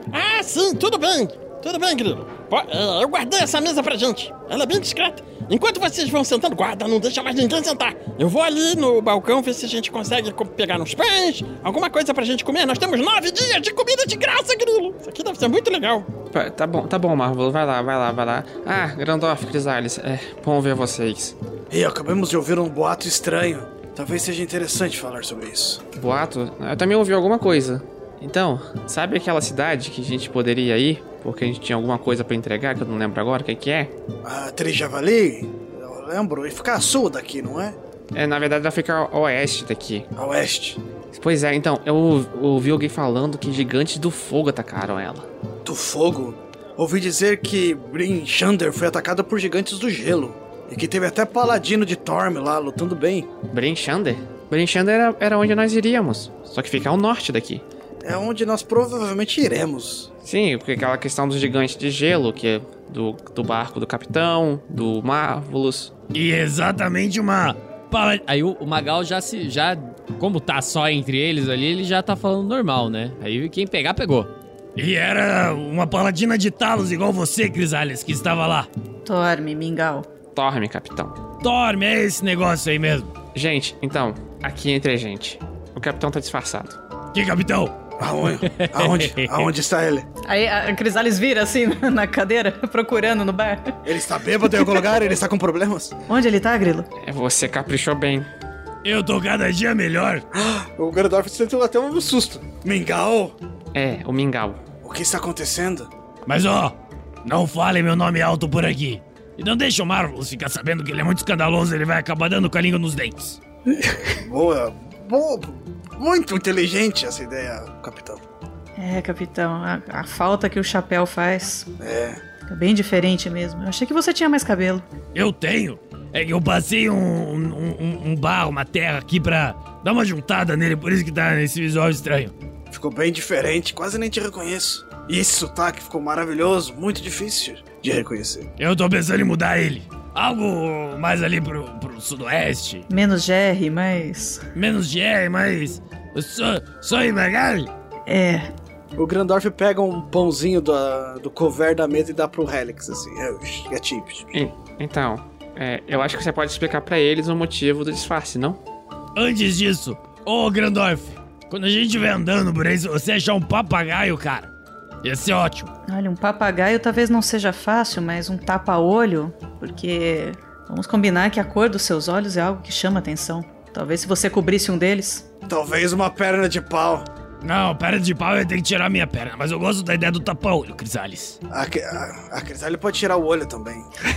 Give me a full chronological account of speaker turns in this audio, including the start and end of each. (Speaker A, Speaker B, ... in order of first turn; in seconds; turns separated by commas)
Speaker A: 0.1-16.1, Speaker B: 16.3-21.4, Speaker C: 21.7-25.8, Speaker B: 26.0-33.9, Speaker C: 34.2-37.8, Speaker B: 38.1-40.1, Speaker C: 40.2-40.8, Speaker B: 41.1-45.3, Speaker C: 45.6-53.3, Speaker B: 53.5-57.6, Speaker C: 58.0-60.1, Speaker B: 60.2-65.9, Speaker D: 66.1-78.7, Speaker E: 79.0-80.1, Speaker B: 80.3-81.2, Speaker D: 81.4-83.1, Speaker B: 83.3-86.8, Speaker D: 87.1-87.7, Speaker C: 88.0-90.1, Speaker D: 88.5-89.5, Speaker E: 90.2-93.8, Speaker C: 93.8-96.0, Speaker E: 96.1-96.9, Speaker B: 97.0-98.3, Speaker D: 98.8-100.2, Speaker C: 100.3-103.4, Speaker B: 103.7-104.6, Speaker C: 104.8-105.9, Speaker D: 106.3-113.4, Speaker C: 113.7-118.2, Speaker E: 118.8-121.7, Speaker C: 121.8-122.2, Speaker E: 122.5-124.9, Speaker D: 125.2-132.3, Speaker C: 132.7-138.5, Speaker D: 138.6-142.8, Speaker E: 142.9-144.4, Speaker D: 144.6-147.7, Speaker E: 148.1-148.5, Speaker C: 149.0-154.3, Speaker B: 154.3-158.6, Speaker D: 159.2-164.5, Speaker D: 165.0-165.7, Speaker E: 165.9-175.3, Speaker C: 175.5-177.1, Speaker D: 177.4-181.4, Speaker C: 181.5-183.9